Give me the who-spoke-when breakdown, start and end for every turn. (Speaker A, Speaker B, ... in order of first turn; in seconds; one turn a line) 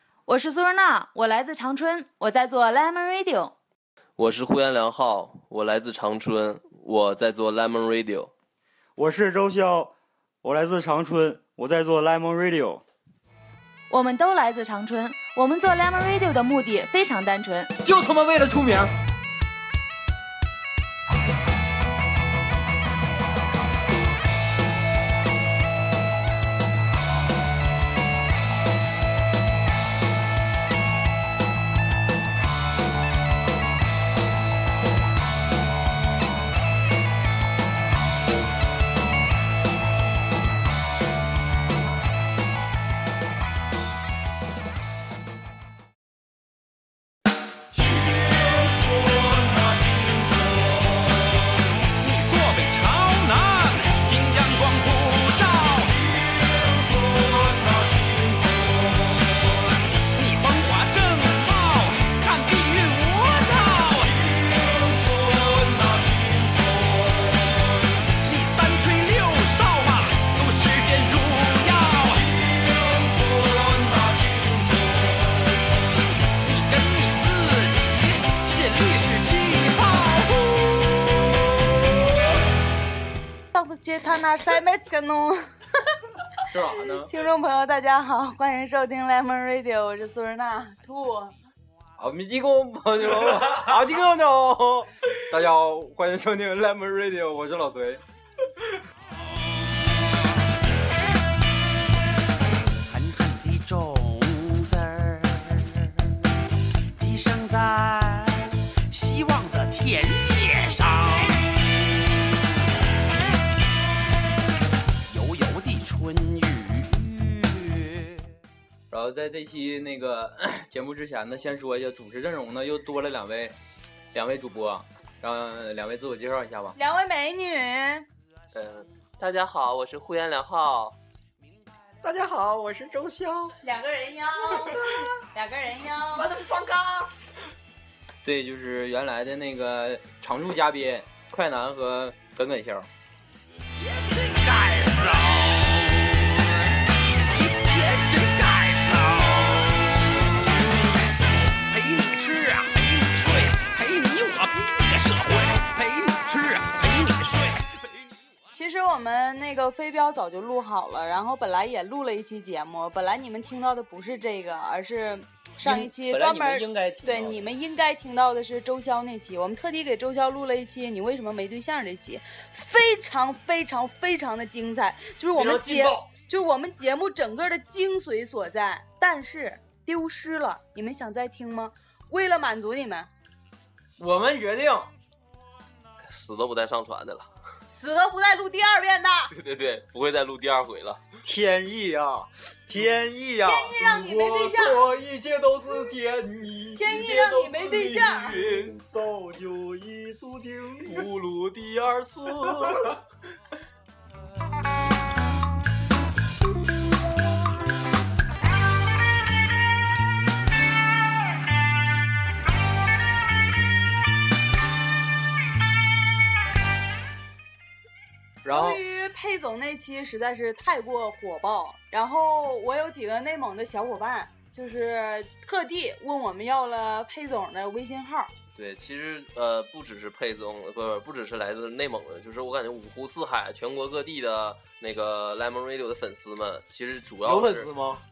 Speaker A: 0.2-3.5
Speaker B: 4.2-8.3
Speaker C: 9.0-12.8
Speaker A: 13.9-17.7
Speaker D: 17.8-18.9
Speaker E: 47.7-75.5
Speaker E: 76.4-81.4
Speaker A: 83.5-85.5
Speaker D: 86.5-87.1
Speaker A: 86.9-91.3
Speaker D: 92.0-98.0
Speaker E: 102.9-105.8
Speaker E: 107.0-111.5
Speaker E: 115.1-118.1
Speaker D: 118.9-123.5
Speaker D: 124.1-126.8
Speaker A: 126.8-128.1
Speaker B: 128.5-130.9
Speaker C: 132.0-133.5
Speaker A: 133.6-136.3
Speaker E: 136.1-137.1
Speaker D: 138.2-142.9
Speaker E: 143.8-146.7
Speaker E: 147.3-150.1
Speaker E: 151.7-157.7
Speaker A: 158.5-183.1
Speaker D: 165.6-167.5
Speaker D: 175.6-176.0
Speaker D: 184.0-184.9
Speaker B: 186.1-187.3
Speaker A: 187.7-189.3
Speaker B: 189.3-191.0
Speaker C: 191.2-193.8
Speaker A: 193.4-194.9
Speaker D: 193.8-198.4
Speaker A: 196.8-198.5
Speaker C: 198.3-201.1
Speaker B: 200.9-202.9
Speaker D: 218.4-218.8
Speaker A: 218.5-228.3
Speaker B: 228.6-237.7
Speaker D: 237.2-238.0